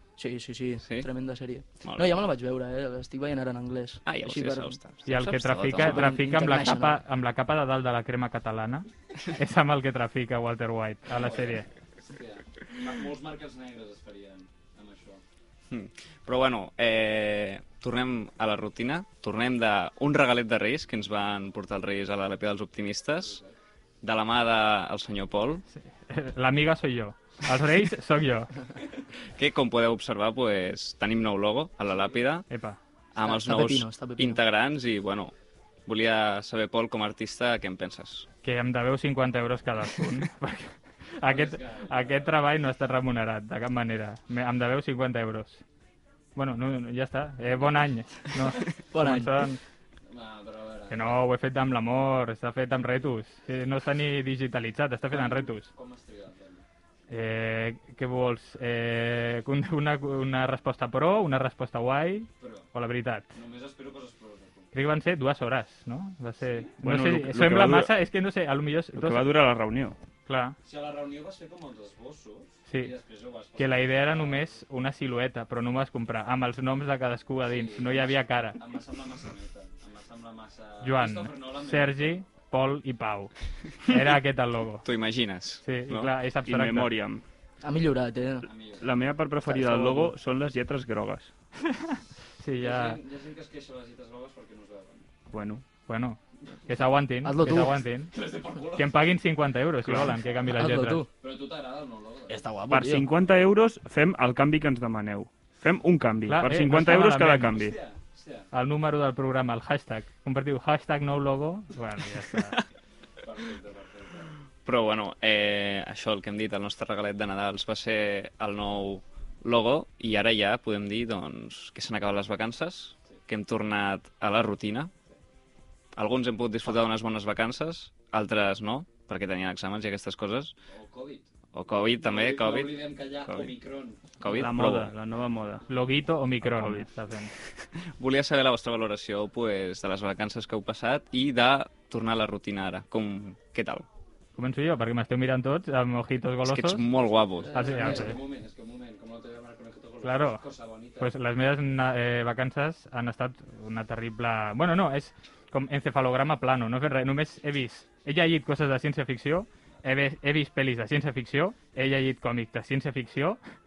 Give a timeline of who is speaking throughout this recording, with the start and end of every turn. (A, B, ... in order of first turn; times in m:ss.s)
0:00.2-0:04.8 A
0:00.8-0:01.1 B
0:01.8-0:02.2 B
0:04.0-0:06.1 B
0:05.0-0:11.7 C
0:05.8-0:07.0 A
0:11.1-0:15.2 D
0:15.7-0:23.4 B
0:23.2-0:23.5 D
0:24.0-0:25.6 B
0:25.8-0:28.5 C
0:29.3-0:32.5 B
0:32.5-0:32.8 C
0:33.1-0:35.3 B
0:33.2-0:34.4 A
0:35.9-0:38.3 B
0:38.4-0:45.6 C
0:41.2-0:42.4 D
0:46.4-0:49.6 C
0:47.4-0:48.3 D
0:48.9-0:49.4 A
0:50.1-0:51.2 D
0:50.9-0:55.7 C
0:55.1-0:56.6 D
0:57.1-1:03.3 C
1:02.4-1:02.7 D
1:03.3-1:04.7 D
1:04.7-1:09.3 C
1:06.4-1:06.7 D
1:06.8-1:07.9 E
1:08.9-1:10.0 E
1:10.3-1:10.6 C
1:10.6-1:14.6 D
1:12.7-1:12.9 C
1:13.6-1:18.6 C
1:17.4-1:22.3 D
1:20.8-1:23.3 C
1:23.8-1:24.8 C
1:24.8-1:26.1 B
1:25.6-1:26.9 C
1:26.4-1:27.2 E
1:27.6-1:28.5 A
1:28.4-1:28.9 D
1:28.8-1:31.3 E
1:29.4-1:30.1 A
1:31.6-1:33.0 C
1:32.6-1:35.1 D
1:35.3-1:35.6 E
1:35.9-1:38.1 C
1:37.2-1:37.8 A
1:38.1-1:39.2 D
1:38.7-1:41.0 C
1:40.5-1:41.1 A
1:41.2-1:42.4 D
1:42.3-1:43.0 A
1:42.7-1:47.8 E
1:46.3-1:47.5 C
1:47.5-1:48.5 D
1:48.5-1:52.6 C
1:53.2-1:54.3 D
1:54.6-2:04.9 B
2:05.9-2:10.5 B
2:10.7-2:11.3 D
2:11.5-2:12.8 B
2:11.9-2:14.2 D
2:13.3-2:13.5 E
2:14.2-2:14.9 B
2:14.2-2:15.6 E
2:15.7-2:17.3 C
2:16.4-2:16.9 E
2:17.9-2:23.9 B
2:24.4-2:26.8 C
2:26.4-2:27.8 B
2:27.5-2:28.2 C
2:27.5-2:31.1 D
2:30.0-2:30.4 C
2:31.0-2:43.4 C